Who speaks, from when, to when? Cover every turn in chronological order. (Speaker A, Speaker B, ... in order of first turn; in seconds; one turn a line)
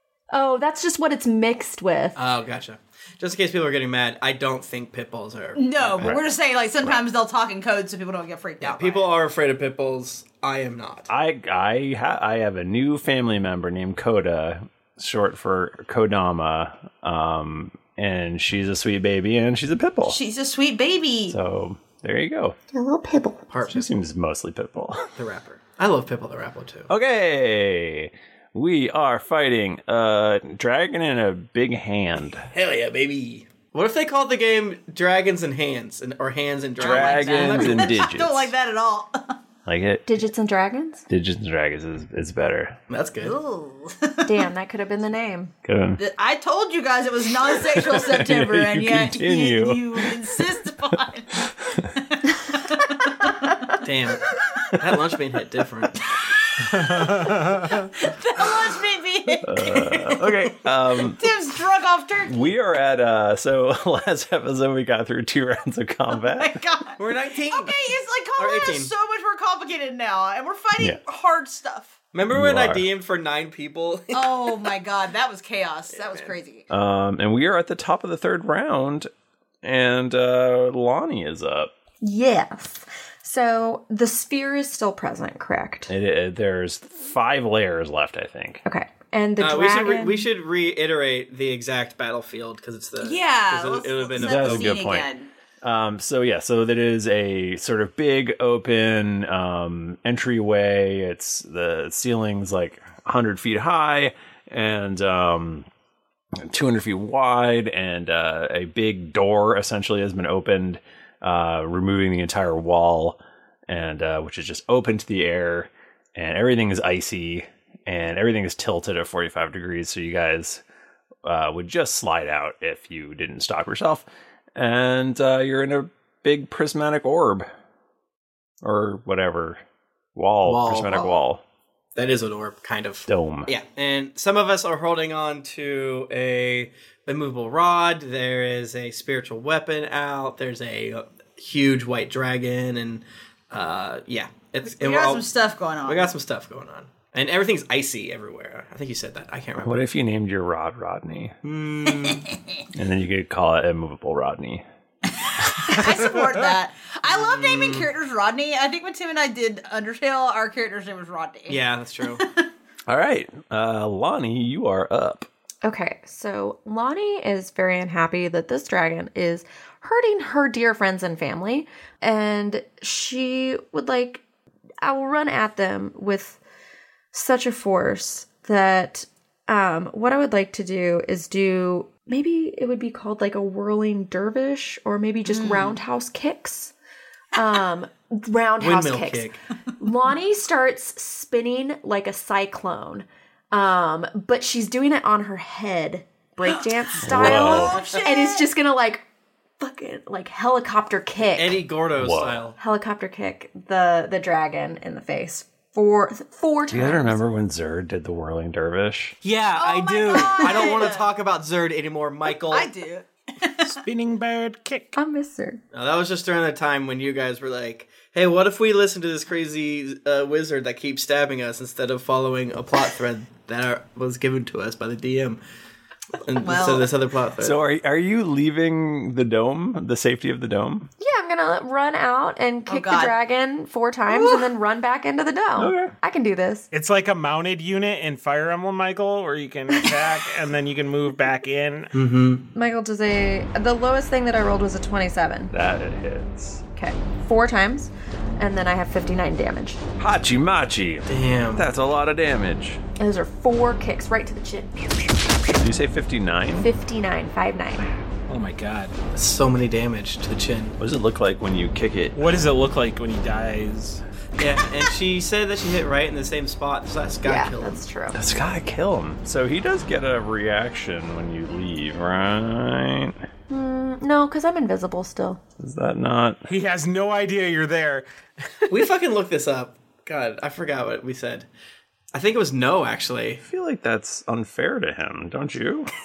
Speaker A: 0.3-2.2
Speaker B: 2.1-6.2
Speaker C: 5.5-9.1
Speaker D: 6.0-6.3
Speaker B: 8.6-11.1
Speaker D: 11.1-20.2
Speaker C: 20.0-21.4
Speaker D: 21.3-22.6
Speaker A: 22.7-23.4
Speaker B: 23.5-23.9
Speaker D: 23.7-25.1
Speaker B: 25.1-26.9
Speaker D: 26.9-32.5
Speaker B: 32.5-38.1
Speaker C: 36.8-39.4
Speaker D: 36.8-38.5
Speaker D: 39.6-40.1
Speaker A: 40.0-41.0
Speaker D: 41.1-42.8
Speaker B: 42.9-43.4
Speaker C: 43.2-44.3
Speaker A: 44.2-45.5
Speaker D: 45.6-46.0
Speaker C: 46.0-51.3
Speaker D: 47.7-50.5
Speaker C: 52.1-53.7
Speaker B: 53.8-54.2
Speaker B: 54.8-56.0
Speaker C: 56.7-62.4
Speaker E: 56.7-57.9
Speaker D: 59.4-61.3
Speaker D: 62.2-66.6
Speaker C: 66.2-72.0
Speaker B: 67.0-68.9
Speaker B: 72.1-74.7
Speaker D: 72.3-72.8
Speaker C: 74.1-76.7
Speaker B: 75.9-76.3
Speaker D: 76.7-79.1
Speaker D: 79.6-81.7
Speaker A: 82.0-85.9
Speaker D: 85.9-88.6
Speaker A: 88.6-90.3
Speaker B: 89.4-94.8
Speaker C: 93.0-95.3
Speaker D: 94.2-95.1
Speaker D: 95.6-105.7
Speaker D: 106.5-120.6
Speaker D: 121.2-127.5
Speaker D: 128.6-129.6
Speaker D: 130.2-131.4
Speaker B: 130.4-131.2
Speaker B: 131.9-145.3
Speaker D: 133.1-133.5
Speaker C: 144.7-146.1
Speaker B: 145.8-149.8
Speaker D: 149.6-151.3
Speaker B: 151.4-152.3
Speaker C: 152.1-152.3
Speaker D: 152.7-154.6
Speaker C: 155.2-162.4
Speaker B: 157.1-157.9
Speaker B: 161.5-162.2
Speaker D: 162.9-165.3
Speaker A: 165.6-174.2
Speaker A: 174.8-176.4
Speaker A: 177.1-186.7
Speaker C: 185.2-185.8
Speaker A: 187.3-199.0
Speaker B: 188.6-189.4
Speaker C: 196.4-198.5
Speaker D: 197.0-197.8
Speaker A: 199.6-201.6
Speaker B: 201.3-202.6
Speaker D: 201.9-202.5
Speaker A: 202.6-207.2
Speaker D: 206.7-209.2
Speaker B: 209.2-212.7
Speaker C: 209.5-211.1
Speaker C: 212.5-213.7
Speaker E: 213.6-214.9
Speaker A: 214.9-215.6
Speaker B: 215.7-225.4
Speaker B: 226.2-227.6
Speaker C: 226.3-226.9
Speaker D: 227.4-230.9
Speaker A: 231.0-236.7
Speaker C: 232.7-233.2
Speaker C: 234.1-234.5
Speaker D: 235.6-235.9
Speaker E: 236.7-241.9
Speaker B: 241.9-242.4
Speaker A: 242.5-245.5
Speaker D: 245.5-246.6
Speaker A: 246.8-249.8
Speaker D: 250.0-252.8
Speaker B: 251.1-251.7
Speaker A: 253.0-254.8
Speaker D: 255.6-256.7
Speaker A: 256.6-257.9
Speaker E: 258.3-258.9
Speaker B: 259.1-260.8
Speaker D: 260.8-262.2
Speaker E: 262.1-264.0
Speaker B: 264.4-267.8
Speaker A: 267.2-268.2
Speaker D: 268.1-273.2
Speaker A: 273.5-275.4
Speaker D: 275.6-276.4
Speaker E: 276.5-278.1
Speaker B: 278.7-281.5
Speaker B: 282.1-283.4
Speaker D: 283.4-285.9